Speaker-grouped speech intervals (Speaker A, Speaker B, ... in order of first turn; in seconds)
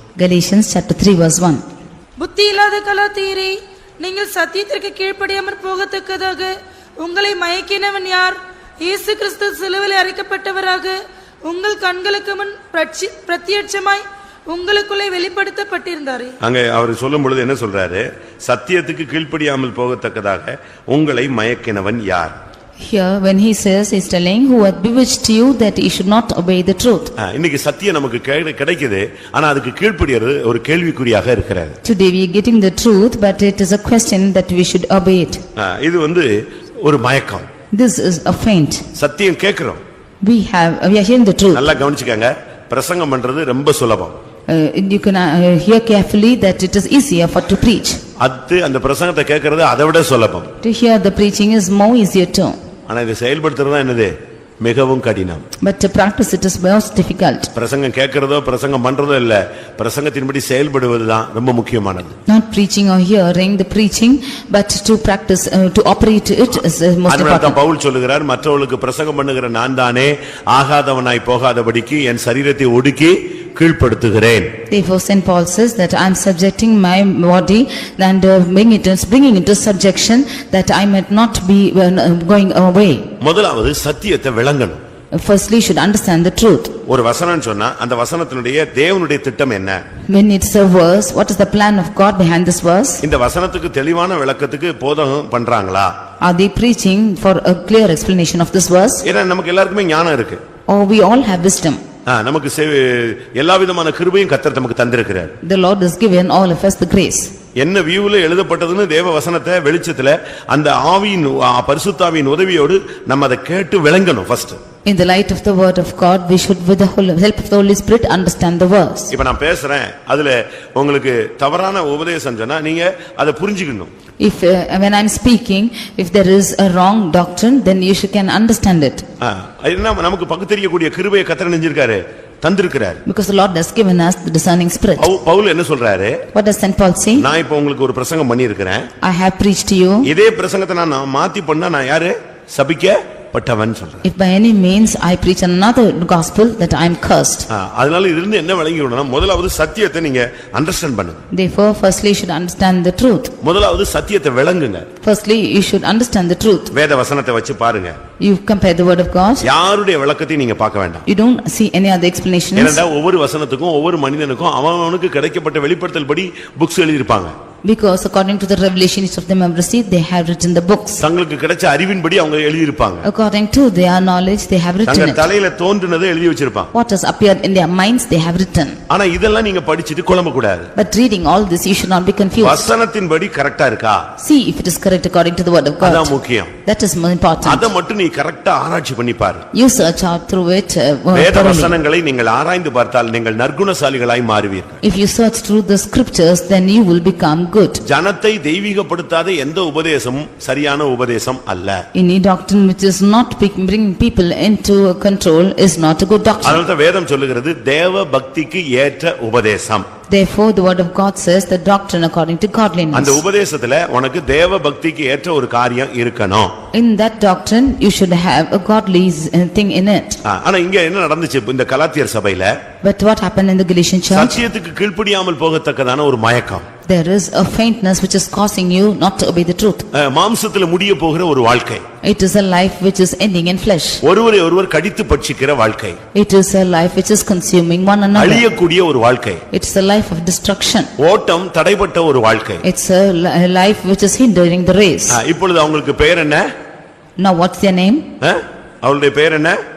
Speaker A: 0.2-1.6, 22.8-27.1, 31.8-35.4, 37.7-38.9, 40.2-41.7, 44.5-48.0, 50.6-52.6, 55.6-57.5, 62.3-67.6, 74.7-83.1, 85.1-86.8, 90.1-93.0, 96.2-99.0, 100.7-101.8, 105.4-107.3, 114.9-119.1, 124.2-129.1, 133.1-135.1, 136.3-137.2, 139.0-140.1, 144.0-147.5, 151.3-153.3, 155.0-156.7, 158.2-159.5, 161.1-162.8, 167.6-171.0, 173.0-175.3, 176.7-178.8, 180.8-182.7, 184.2-186.1, 186.7-187.7, 189.5-191.8, 194.8-197.8, 201.9-206.6, 210.1-213.2, 216.7-220.2, 222.8-224.4, 226.9-229.9, 232.0-234.0, 236.1-238.4, 239.5-240.9, 242.6-245.2, 247.2-248.1
Speaker B: 2.2-16.4
Speaker C: 16.4-22.4, 27.2-31.8, 35.6-37.5, 39.0-39.8, 41.5-44.1, 48.2-50.5, 52.9-55.5, 57.5-62.2, 67.1-74.5, 83.2-84.8, 86.9-89.8, 93.0-95.9, 99.0-100.4, 102.1-105.3, 107.6-114.6, 119.1-123.9, 129.2-133.0, 135.0-136.2, 137.2-138.9, 140.0-144.1, 147.5-151.2, 153.4-154.9, 156.7-158.0, 159.4-161.1, 162.6-167.3, 171.0-173.1, 174.9-176.7, 178.9-180.7, 182.4-184.1, 185.8-186.5, 187.4-189.4, 191.1-194.8, 197.8-201.8, 206.4-209.9, 212.9-216.6, 220.2-222.6, 224.1-226.7, 229.9-231.8, 234.0-236.0, 238.2-239.4, 241.0-242.6, 245.1-246.5, 248.2-249.6